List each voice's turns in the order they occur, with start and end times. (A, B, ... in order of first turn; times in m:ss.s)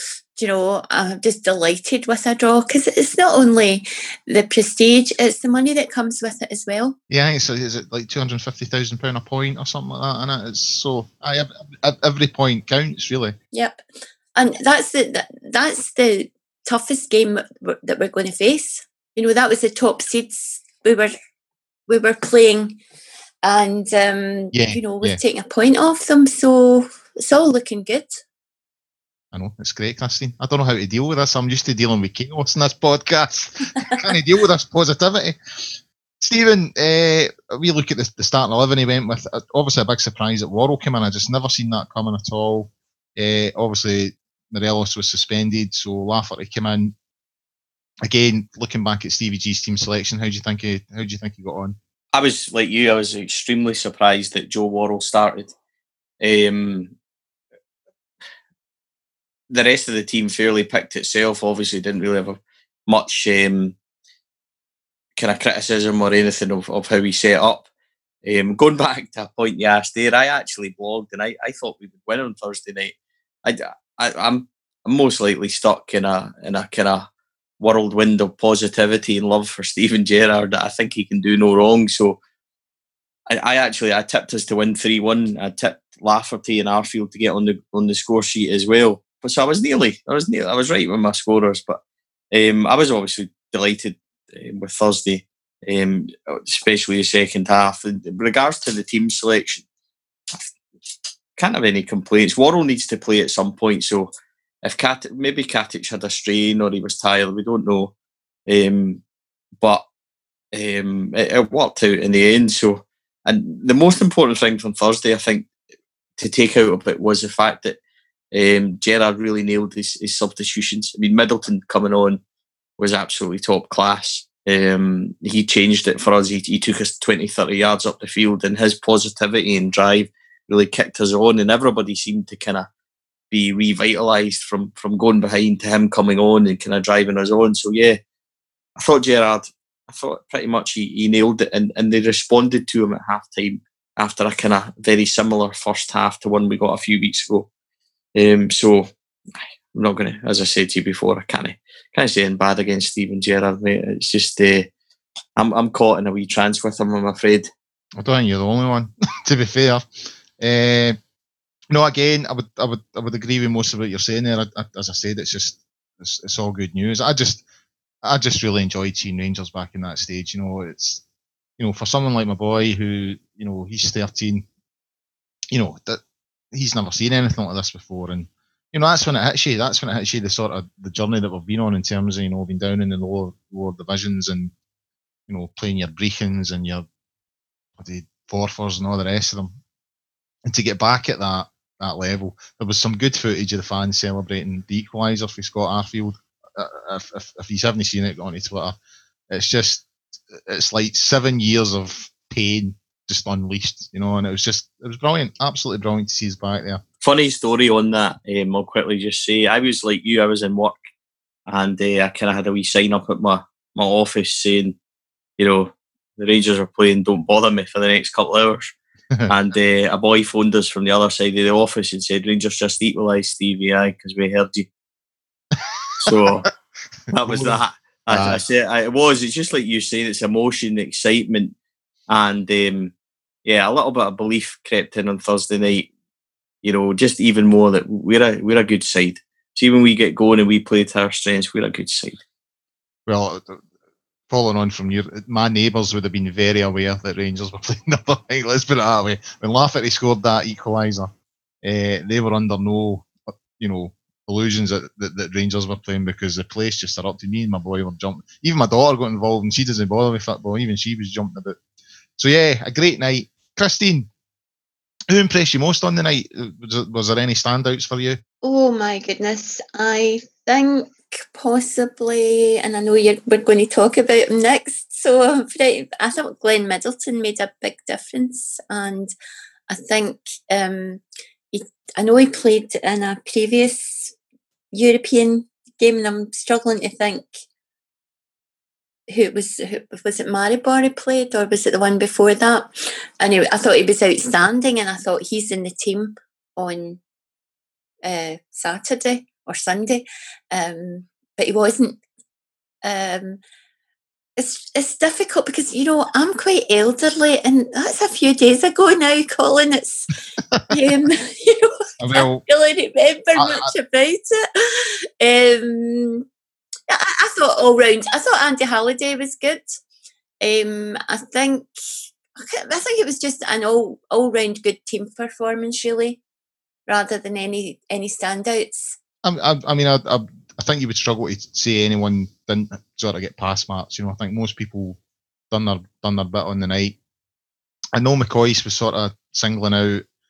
0:00.4-0:07.0 A
0:07.1-0:13.4 B
0:13.5-0:13.8 A
0:14.4-0:21.2 A
0:21.9-0:22.8 A
0:23.4-0:28.2 A
0:24.5-0:25.2 B
0:29.3-0:35.7 B
0:36.2-0:46.9 B
0:48.0-0:51.8 B
0:52.1-0:55.5 C
0:56.2-0:56.9 C
0:59.5-1:03.8 C
1:05.2-1:07.7 C
1:08.2-1:22.2 C
1:23.3-1:31.8 C
1:32.3-1:39.6 C
1:41.4-1:44.1 C
1:44.6-1:47.9 C
1:48.5-1:49.0 C
1:49.6-1:49.8 C
1:50.5-1:55.5 C
1:56.2-1:57.8 C
1:58.3-2:02.2 C
2:02.8-2:12.7 C
2:13.3-2:18.0 C
2:18.8-2:27.5 C
2:28.1-2:28.9 C
2:29.7-2:34.7 C
2:35.4-2:37.5 C
2:38.0-2:41.0 B
2:41.7-2:47.4 B
2:48.0-2:51.0 B
2:51.6-2:54.4 B
2:55.5-2:56.0 B
2:56.5-3:04.5 B
3:05.3-3:06.9 B
3:07.8-3:09.5 B
3:10.4-3:18.8 B
3:19.3-3:26.8 B
3:27.0-3:30.8 C
3:31.5-3:34.8 C
3:35.4-3:38.7 C
3:39.3-3:44.7 C
3:46.0-3:46.4 B
3:46.0-3:46.4 C
3:47.1-3:51.5 C
3:47.2-3:47.6 B
3:48.1-3:48.4 B
3:52.1-3:52.9 C
3:53.4-3:55.9 C
3:56.6-4:02.2 C
4:03.1-4:03.6 B
4:04.3-4:11.1 B
4:11.6-4:21.6 B
4:22.2-4:24.1 B
4:25.1-4:28.2 B
4:28.4-4:39.1 A
4:39.7-4:44.1 A
4:44.7-4:47.3 A
4:49.1-4:57.0 A
4:58.0-5:02.0 A
5:02.8-5:03.4 A
5:04.4-5:10.1 A
5:10.7-5:16.2 A
5:12.0-5:12.4 B
5:13.4-5:13.7 B
5:16.9-5:19.8 A
5:20.4-5:21.7 A
5:22.4-5:26.2 A
5:26.9-5:29.0 A
5:29.2-5:35.0 B
5:35.5-5:37.0 B
5:38.0-5:40.0 B